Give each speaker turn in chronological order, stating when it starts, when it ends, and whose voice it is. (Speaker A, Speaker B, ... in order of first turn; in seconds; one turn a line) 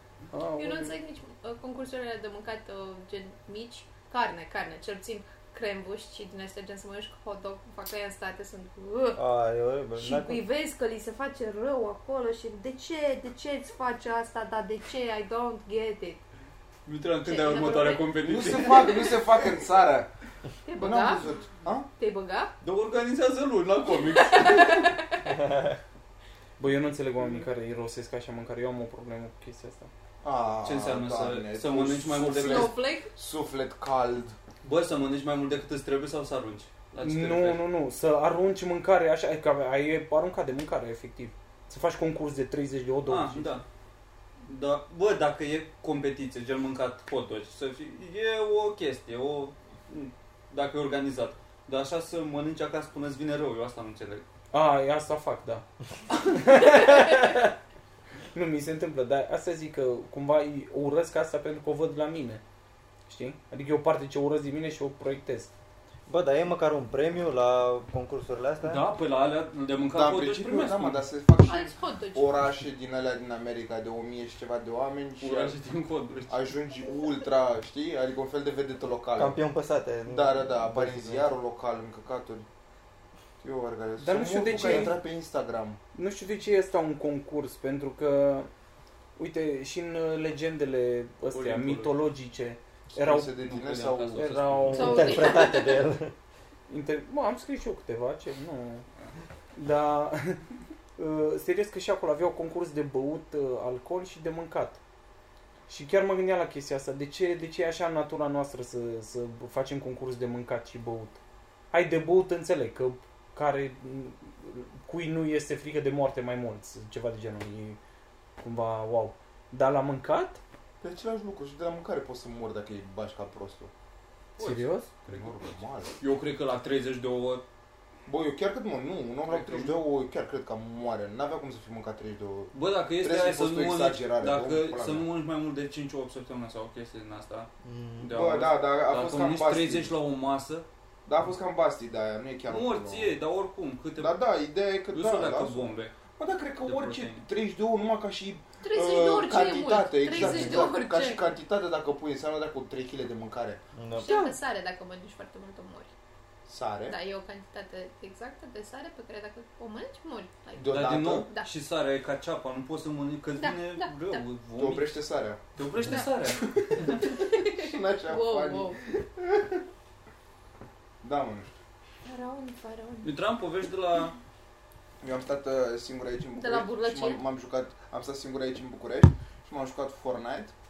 Speaker A: 0.3-0.9
Speaker B: 0.6-9.2
Speaker C: 9.2-10.4
Speaker B: 9.9-16.2
Speaker D: 16.9-19.0
Speaker B: 17.2-19.1
Speaker E: 18.2-20.1
Speaker B: 20.6-21.2
Speaker E: 20.8-21.9
Speaker B: 22.0-22.5
Speaker D: 22.6-24.9
Speaker B: 24.1-25.2
Speaker A: 26.6-29.9
Speaker E: 30.2-34.3
Speaker D: 30.6-32.7
Speaker B: 32.3-33.1
Speaker D: 34.6-37.6
Speaker A: 37.0-43.5
Speaker D: 43.1-43.6
Speaker D: 44.4-54.2
Speaker A: 54.5-55.6
Speaker A: 56.3-57.5
Speaker A: 58.3-62.4
Speaker A: 63.1-65.5
Speaker C: 66.1-68.9
Speaker D: 68.6-71.0
Speaker E: 69.9-75.5
Speaker B: 71.4-72.4
Speaker D: 75.2-76.4
Speaker E: 76.3-79.4
Speaker C: 79.2-81.3
Speaker E: 80.1-82.5
Speaker E: 83.4-85.8
Speaker A: 84.0-85.0
Speaker A: 85.9-88.5
Speaker A: 89.2-93.3
Speaker D: 91.3-92.0
Speaker E: 92.9-94.3
Speaker D: 93.4-95.1
Speaker A: 94.1-95.3
Speaker B: 94.7-95.8
Speaker C: 94.7-96.1
Speaker A: 96.7-98.8
Speaker A: 99.5-100.4
Speaker A: 101.0-104.8
Speaker A: 105.7-111.2
Speaker A: 111.7-117.8
Speaker A: 118.4-120.4
Speaker E: 120.8-123.7
Speaker D: 124.4-125.3
Speaker A: 124.4-124.9
Speaker E: 125.0-125.9
Speaker D: 126.0-127.4
Speaker E: 128.1-135.1
Speaker D: 129.3-129.8
Speaker D: 132.5-137.5
Speaker C: 137.6-138.1
Speaker D: 138.0-140.7
Speaker E: 138.1-139.9
Speaker E: 141.1-143.2
Speaker D: 142.5-144.2
Speaker E: 144.0-153.6
Speaker D: 144.9-145.9
Speaker D: 146.6-147.2
Speaker B: 148.6-151.2
Speaker C: 150.2-150.6
Speaker C: 153.8-154.1
Speaker B: 154.0-155.9
Speaker E: 156.5-157.0
Speaker B: 156.9-161.5
Speaker E: 160.6-161.2
Speaker D: 160.7-164.9
Speaker B: 163.4-164.2
Speaker E: 164.5-165.4
Speaker D: 165.6-167.1
Speaker E: 166.3-169.6
Speaker B: 167.2-168.8
Speaker E: 171.0-171.5
Speaker B: 172.0-173.1
Speaker D: 173.0-174.1
Speaker E: 175.0-180.5
Speaker B: 176.4-177.2